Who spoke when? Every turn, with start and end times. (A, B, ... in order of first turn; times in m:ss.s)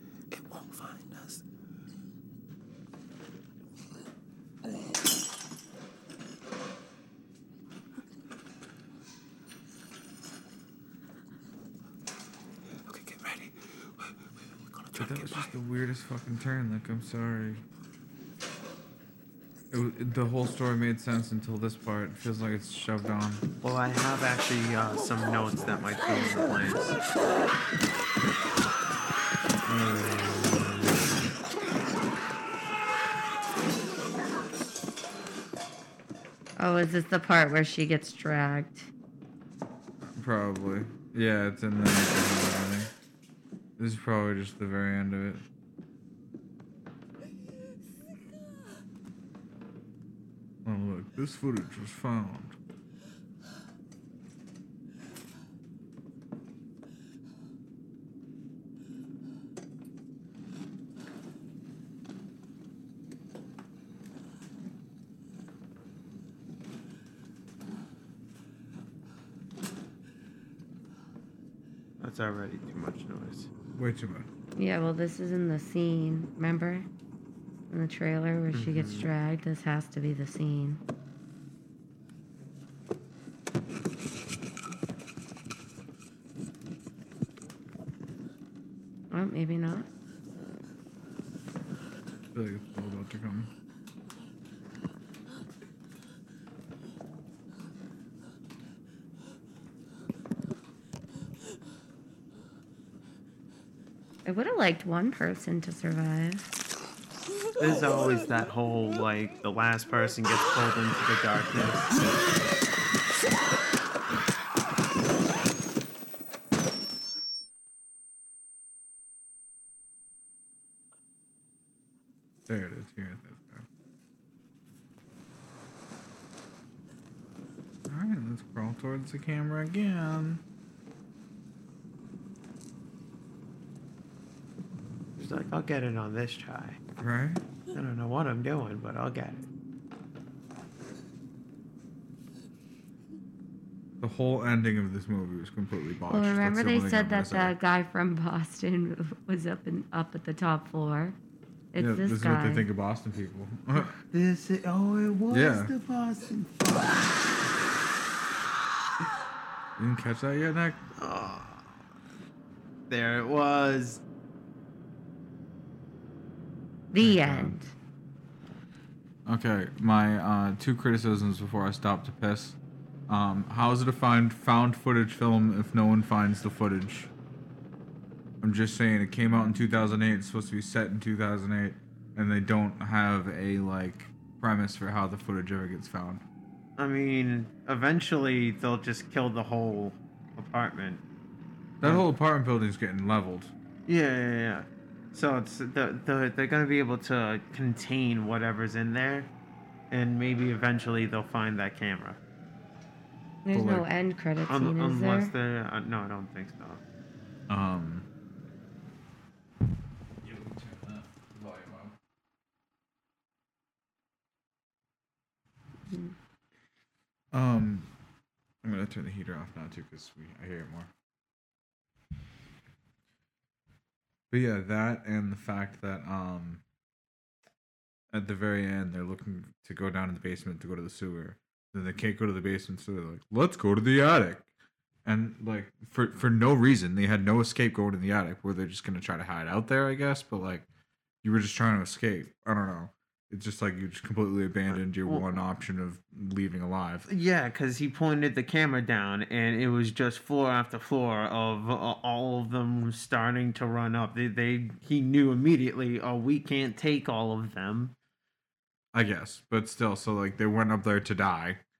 0:14.9-0:17.6 A
0:19.7-0:23.4 A
0:23.6-0:27.0 B
0:29.6-0:31.0 A
0:36.6-0:38.9 C
0:40.0-0:42.9 A
0:43.8-0:45.4 A
0:50.6-0:52.6 A
1:12.0-1:13.5 B
1:13.8-1:14.3 A
1:14.6-1:16.9 C
1:17.7-1:20.8 C
1:18.5-1:19.1 B
1:29.1-1:29.9 C
1:32.3-1:33.5 A
1:44.2-1:46.5 C
1:47.6-1:51.9 B
2:02.5-2:03.6 A
2:07.9-2:10.4 A
2:15.2-2:16.8 B
2:17.0-2:17.4 A
2:17.7-2:19.4 B
2:24.0-2:27.5 A
2:26.1-2:31.2 C
2:31.7-2:32.7 C
2:31.8-2:34.0 A
2:34.1-2:37.0 B
2:35.3-2:35.7 A
2:39.8-2:40.8 A
2:41.0-2:41.7 B
2:42.9-2:44.0 B
2:46.9-2:47.7 C
2:47.0-2:47.5 A
2:49.2-2:52.6 A
2:53.1-2:57.1 A
2:58.4-3:06.2 A
3:06.8-3:11.0 B
3:11.8-3:13.5 A
3:13.9-3:19.3 B
3:19.9-3:22.2 B
3:23.4-3:25.3 C
3:23.5-3:23.8 A
3:24.5-3:26.8 B
3:27.5-3:28.0 A
3:30.2-3:31.9 A
3:37.3-3:37.9 A
3:38.6-3:40.9 A
3:44.3-3:46.6 A
3:48.1-3:54.5 A
3:55.0-4:00.7 A
4:01.2-4:07.0 A
4:04.7-4:05.3 B
4:07.1-4:17.9 B
4:18.9-4:21.6 A